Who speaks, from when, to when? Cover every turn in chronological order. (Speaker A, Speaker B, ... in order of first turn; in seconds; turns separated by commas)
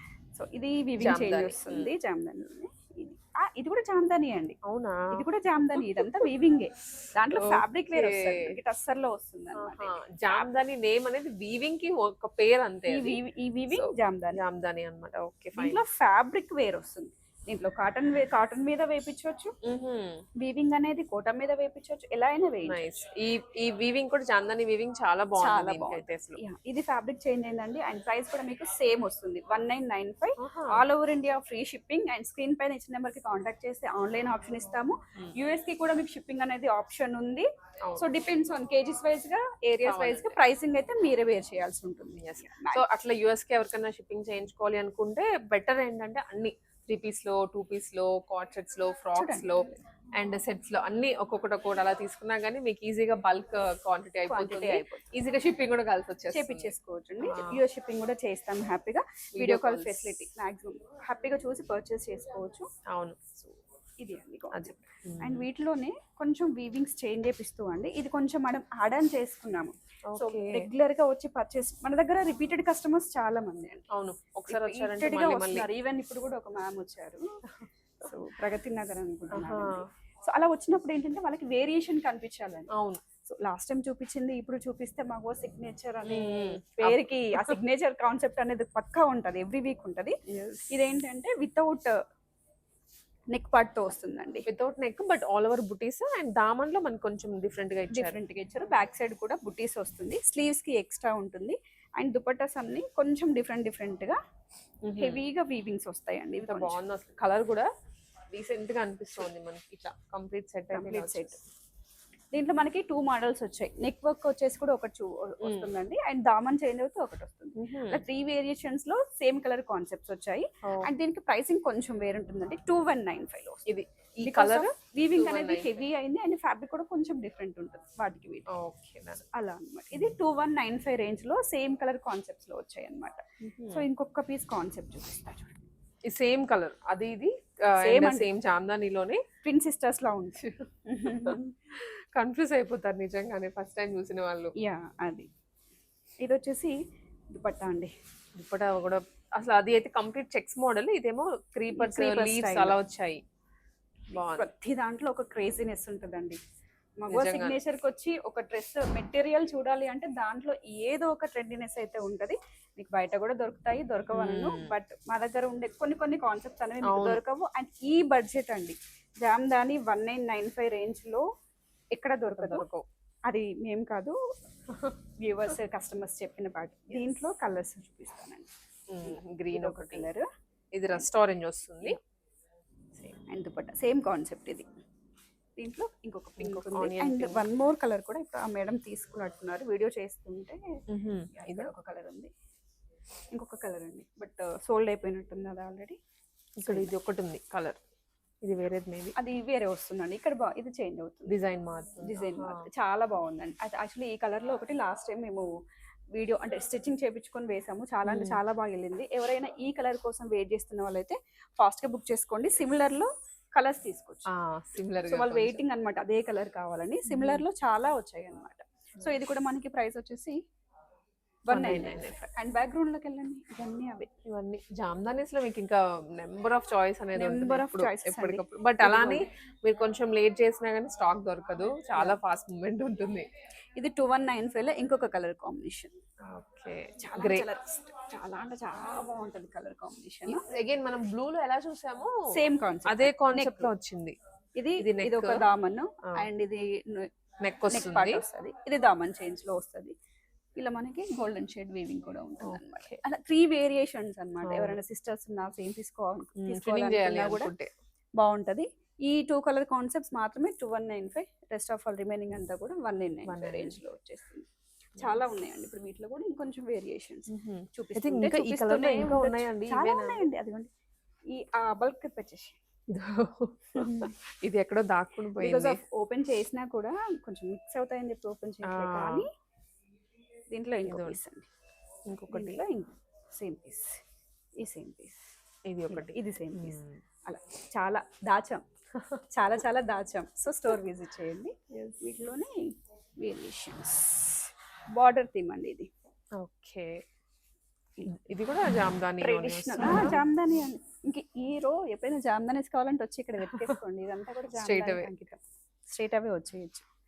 Speaker A: 0.3-4.6, Speaker B: 1.0-1.9, Speaker B: 4.6-6.0, Speaker A: 5.1-10.5, Speaker B: 7.3-8.6, Speaker B: 9.6-13.2, Speaker A: 12.9-14.4, Speaker B: 13.7-15.8, Speaker A: 15.6-19.6, Speaker B: 19.6-20.2, Speaker A: 20.4-23.0, Speaker B: 22.7-26.4, Speaker A: 25.4-42.9, Speaker B: 30.4-30.9, Speaker B: 39.8-40.4, Speaker B: 42.2-57.6, Speaker A: 49.1-49.8, Speaker A: 54.3-55.1, Speaker A: 56.3-62.7, Speaker B: 59.4-60.2, Speaker B: 62.9-63.2, Speaker A: 63.4-73.8, Speaker B: 64.5-65.5, Speaker B: 70.1-70.7, Speaker B: 73.9-75.7, Speaker A: 74.5-77.2, Speaker B: 77.6-78.1, Speaker A: 78.0-82.7, Speaker B: 79.3-79.9, Speaker B: 82.7-83.0, Speaker A: 83.3-90.2, Speaker B: 86.0-87.6, Speaker B: 90.3-90.7, Speaker A: 90.7-92.0, Speaker A: 93.3-94.5, Speaker B: 94.5-98.2, Speaker A: 97.9-104.2, Speaker B: 104.8-105.2, Speaker A: 105.0-106.8, Speaker B: 106.4-107.7, Speaker B: 108.3-111.4, Speaker A: 110.7-111.4, Speaker A: 112.3-123.7, Speaker B: 115.4-115.7, Speaker B: 117.6-118.0, Speaker B: 120.6-120.9, Speaker B: 123.7-125.8, Speaker A: 124.2-128.5, Speaker B: 128.5-129.2, Speaker A: 129.3-135.7, Speaker B: 133.4-133.9, Speaker B: 136.1-139.2, Speaker A: 137.8-138.3, Speaker A: 139.4-141.6, Speaker B: 140.4-144.5, Speaker A: 144.6-145.3, Speaker A: 146.2-146.8, Speaker A: 147.3-147.9, Speaker B: 148.3-153.2, Speaker A: 151.7-152.8, Speaker B: 154.1-154.5, Speaker A: 154.2-156.4, Speaker A: 157.0-171.3, Speaker B: 157.1-157.6, Speaker B: 164.1-164.7, Speaker B: 166.8-167.2, Speaker A: 171.9-172.7, Speaker B: 172.3-172.9, Speaker A: 173.3-174.2, Speaker A: 175.2-178.5, Speaker B: 178.9-180.1, Speaker A: 179.0-180.3, Speaker B: 180.7-182.0, Speaker A: 183.3-184.7, Speaker A: 185.6-190.6, Speaker B: 186.4-187.4, Speaker B: 190.9-191.7, Speaker A: 191.3-192.3, Speaker A: 193.3-196.0, Speaker B: 196.6-197.8, Speaker A: 196.6-196.9, Speaker B: 198.4-199.1, Speaker A: 199.2-201.4, Speaker B: 201.3-202.7, Speaker A: 202.0-205.5, Speaker A: 206.1-214.3, Speaker B: 208.1-208.4, Speaker B: 214.3-215.6, Speaker A: 215.1-220.4, Speaker B: 217.1-217.4, Speaker A: 221.5-224.1, Speaker B: 221.5-222.3, Speaker B: 224.2-233.3, Speaker A: 227.2-229.2, Speaker A: 231.9-232.2, Speaker A: 233.8-235.9, Speaker B: 236.2-237.5, Speaker A: 237.0-240.5, Speaker B: 240.3-242.2, Speaker A: 242.3-243.7, Speaker B: 242.9-244.2, Speaker A: 244.6-247.1, Speaker B: 244.8-245.4, Speaker B: 247.4-248.2, Speaker A: 247.7-249.9, Speaker A: 250.6-257.5, Speaker B: 252.4-253.0, Speaker B: 254.4-254.8, Speaker B: 256.4-257.7, Speaker A: 258.2-270.7, Speaker B: 263.3-263.8, Speaker B: 267.3-270.2, Speaker A: 271.3-272.6, Speaker B: 272.9-275.8, Speaker A: 273.8-274.1, Speaker A: 275.4-279.3, Speaker B: 278.6-279.3, Speaker A: 280.5-281.5, Speaker B: 280.9-281.2, Speaker B: 282.1-282.6, Speaker A: 282.3-284.0, Speaker A: 284.6-285.2, Speaker B: 285.7-287.0, Speaker A: 285.9-288.6, Speaker B: 288.9-289.2, Speaker A: 289.3-295.9, Speaker B: 291.7-292.1, Speaker B: 296.4-297.0, Speaker B: 298.0-300.2, Speaker A: 299.2-306.9, Speaker B: 303.5-303.8, Speaker B: 304.5-305.1